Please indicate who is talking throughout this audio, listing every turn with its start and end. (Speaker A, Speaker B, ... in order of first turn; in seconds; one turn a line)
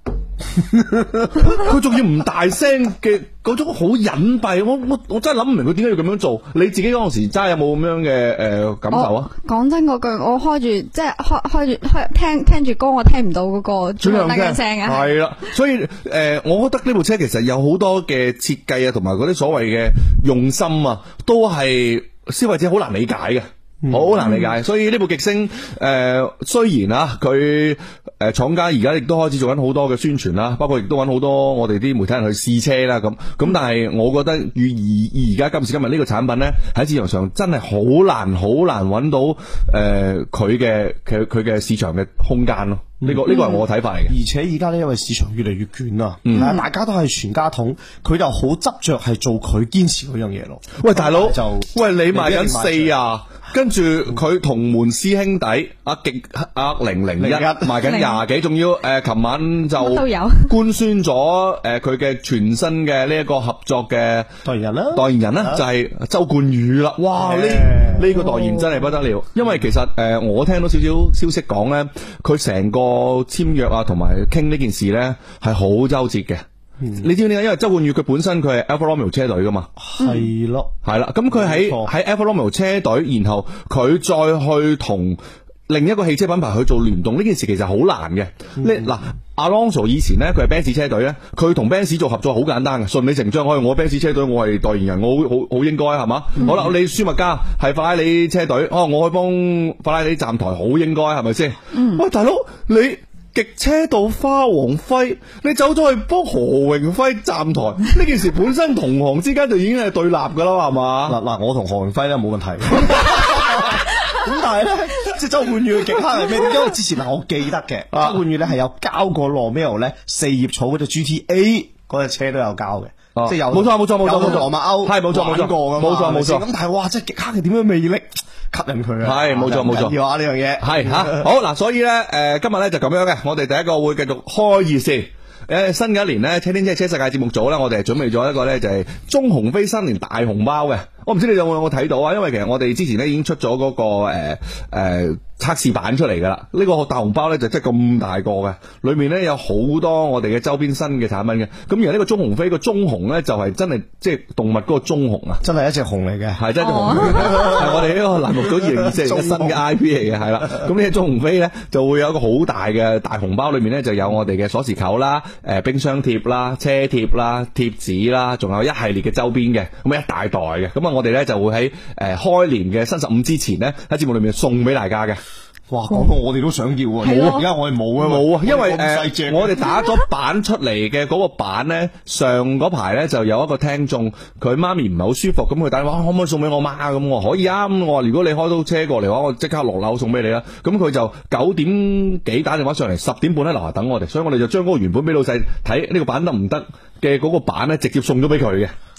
Speaker A: 1.4-9.3
Speaker B: 8.9-15.2
Speaker A: 14.0-44.1
Speaker C: 23.8-24.2
Speaker B: 24.2-24.5
Speaker C: 43.0-43.5
Speaker C: 44.1-52.9
Speaker A: 46.2-46.6
Speaker A: 50.8-64.3
Speaker C: 57.2-57.8
Speaker B: 57.8-58.2
Speaker B: 59.8-60.5
Speaker C: 64.4-65.6
Speaker A: 64.9-76.4
Speaker C: 67.1-68.1
Speaker B: 68.1-68.8
Speaker C: 76.8-77.0
Speaker A: 77.0-79.7
Speaker C: 79.8-80.7
Speaker A: 80.8-111.2
Speaker C: 81.3-81.9
Speaker C: 88.6-88.9
Speaker B: 101.7-102.0
Speaker C: 111.1-131.3
Speaker A: 117.9-118.2
Speaker A: 123.2-126.4
Speaker A: 129.0-129.9
Speaker A: 130.6-155.4
Speaker C: 155.4-159.6
Speaker A: 156.4-175.2
Speaker B: 156.6-157.5
Speaker C: 175.7-179.7
Speaker B: 177.0-177.4
Speaker A: 178.0-198.7